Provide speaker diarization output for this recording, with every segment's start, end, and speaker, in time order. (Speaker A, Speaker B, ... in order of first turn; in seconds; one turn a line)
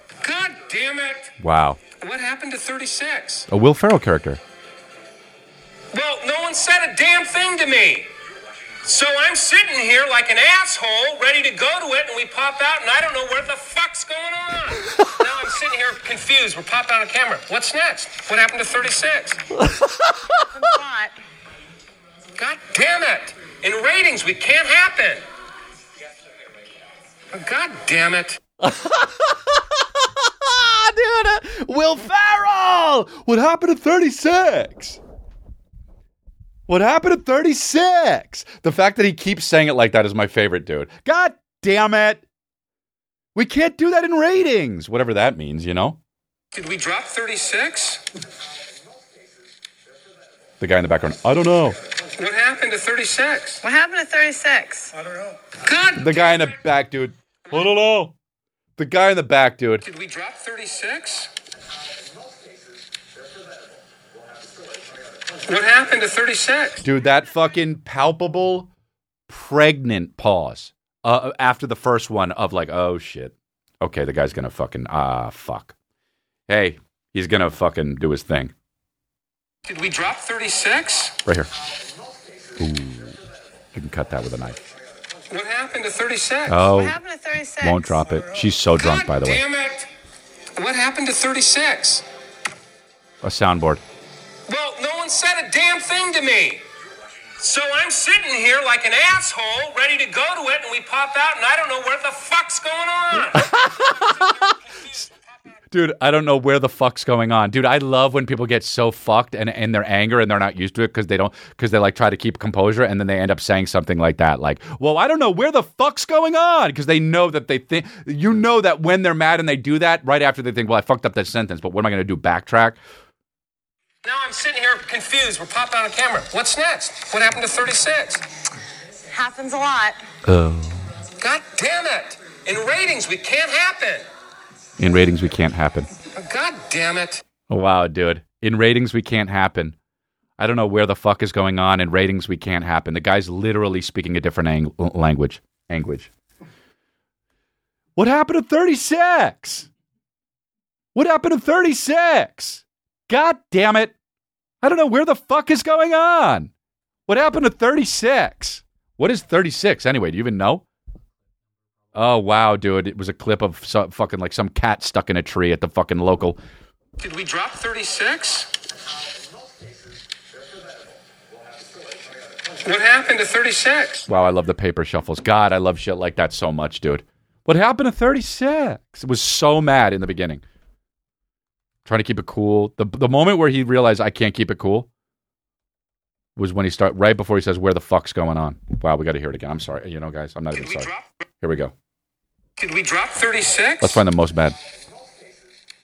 Speaker A: 0.2-1.4
Speaker B: 1.4-1.8
Speaker A: 1.9-3.5
Speaker B: 3.5-4.4
Speaker A: 5.9-8.1
Speaker A: 8.8-19.5
Speaker C: 20.4-21.2
Speaker A: 22.4-25.2
Speaker A: 27.3-28.4
Speaker B: 28.6-35.0
Speaker B: 36.7-42.2
Speaker B: 43.4-46.0
Speaker A: 46.5-48.0
Speaker B: 50.6-51.8
Speaker A: 52.1-53.6
Speaker C: 53.6-54.9
Speaker A: 55.5-56.5
Speaker B: 56.0-58.1
Speaker B: 58.8-59.8
Speaker A: 59.8-61.3
Speaker A: 65.5-66.8
Speaker B: 66.8-68.7
Speaker B: 69.3-75.7
Speaker B: 76.5-78.5
Speaker A: 79.7-81.2
Speaker B: 82.6-83.2
Speaker B: 83.7-84.6
Speaker A: 85.3-86.7
Speaker B: 86.5-87.0
Speaker C: 86.7-88.0
Speaker B: 87.6-89.4
Speaker A: 88.8-89.9
Speaker A: 90.5-92.0
Speaker B: 93.2-93.8
Speaker A: 94.5-96.6
Speaker A: 97.4-105.1
Speaker B: 103.3-104.5
Speaker B: 105.7-122.8
Speaker A: 124.0-128.3
Speaker C: 129.1-130.0
Speaker B: 130.2-130.9
Speaker A: 131.2-134.1
Speaker B: 134.8-135.9
Speaker A: 136.1-137.2
Speaker B: 137.5-139.8
Speaker B: 140.4-146.1
Speaker B: 148.0-149.7
Speaker B: 150.9-153.9
Speaker B: 154.6-156.5
Speaker B: 157.1-160.6
Speaker B: 161.9-166.4
Speaker A: 167.0-168.6
Speaker A: 172.6-174.1
Speaker B: 174.1-180.4
Speaker B: 181.8-184.9
Speaker B: 186.4-191.7
Speaker A: 190.5-191.1
Speaker A: 192.6-194.0
Speaker B: 193.8-194.6